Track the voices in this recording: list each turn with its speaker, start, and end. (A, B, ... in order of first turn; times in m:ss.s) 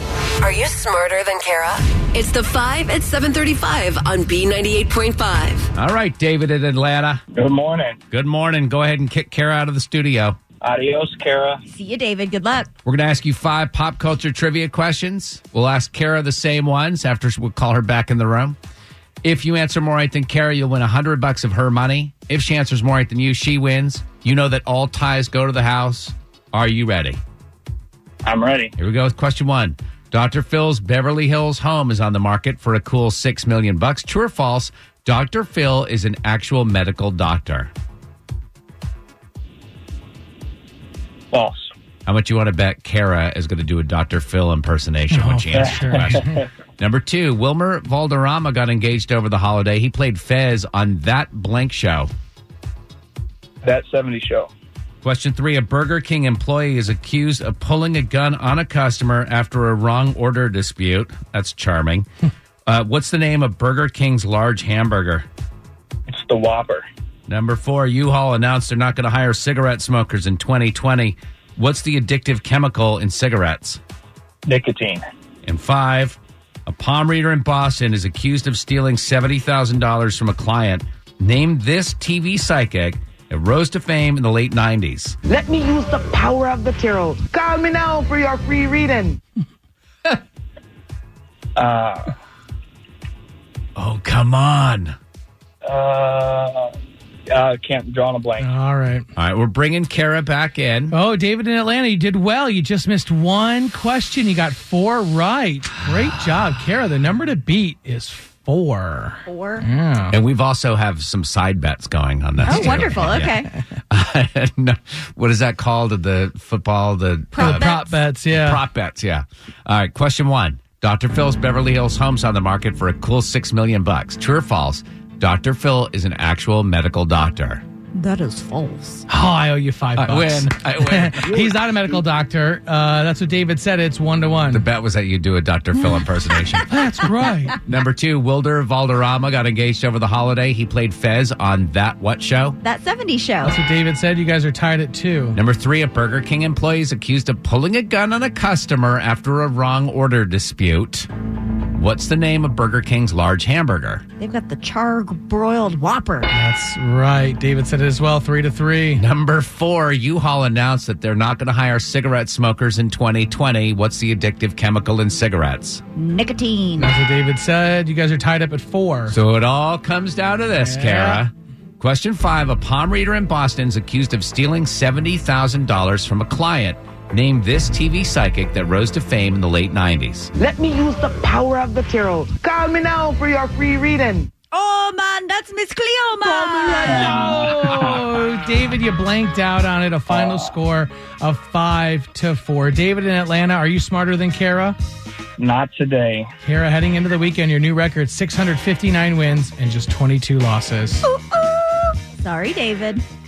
0:00.4-0:05.7 A
0:05.7-0:07.2 B
0:07.3-0:08.0 C
0:08.1-0:10.4 B
0:10.6-0:11.6 C
0:11.7-0:12.7 D
0:12.8-0:18.6 B
0:19.2-0:27.2 B
0:28.2-0:28.7 C
0:28.8-0:37.7 B
0:41.3-0:41.7 C
0:42.0-0:52.1 B
0:45.1-0:46.3 E
0:45.5-0:46.4 C
0:53.6-0:54.5 C
0:55.0-1:02.1 B
1:02.7-1:05.2 B
1:06.1-1:06.8 C
1:07.3-1:13.8 B
1:14.4-1:15.0 C
1:15.4-1:25.2 B
1:25.3-1:29.2 F
1:31.6-1:32.1 C
1:33.8-1:34.9 B
1:35.6-1:36.7 C
1:37.3-1:38.5 C
1:38.4-1:39.0 E
1:39.2-1:41.0 B
1:40.9-1:50.2 E
1:49.2-1:49.6 D
1:50.1-1:57.7 B
1:52.4-1:53.5 D
1:57.3-1:58.0 D
1:57.4-1:58.6 E
1:58.2-2:07.6 B
2:07.9-2:09.0 D
2:09.1-2:14.6 E
2:10.0-2:11.4 B
2:11.2-2:12.0 F
2:14.5-2:16.7 B
2:16.7-2:17.6 E
2:17.6-2:22.6 B
2:22.6-2:23.6 D
2:23.4-2:25.4 E
2:25.3-2:31.1 B
2:31.7-2:34.0 B
2:34.2-2:36.3 D
2:36.3-2:39.0 E
2:38.9-2:45.8 B
2:45.9-2:46.9 D
2:46.8-2:49.2 E
2:49.1-3:00.3 B
2:50.6-2:51.2 E
3:00.4-3:04.3 F
3:04.5-3:07.3 D
3:06.5-3:06.9 F
3:06.6-3:14.8 E
3:06.8-3:08.0 C
3:10.1-3:10.5 C
3:15.4-3:16.3 C
3:16.4-3:21.1 E
3:21.0-3:23.0 D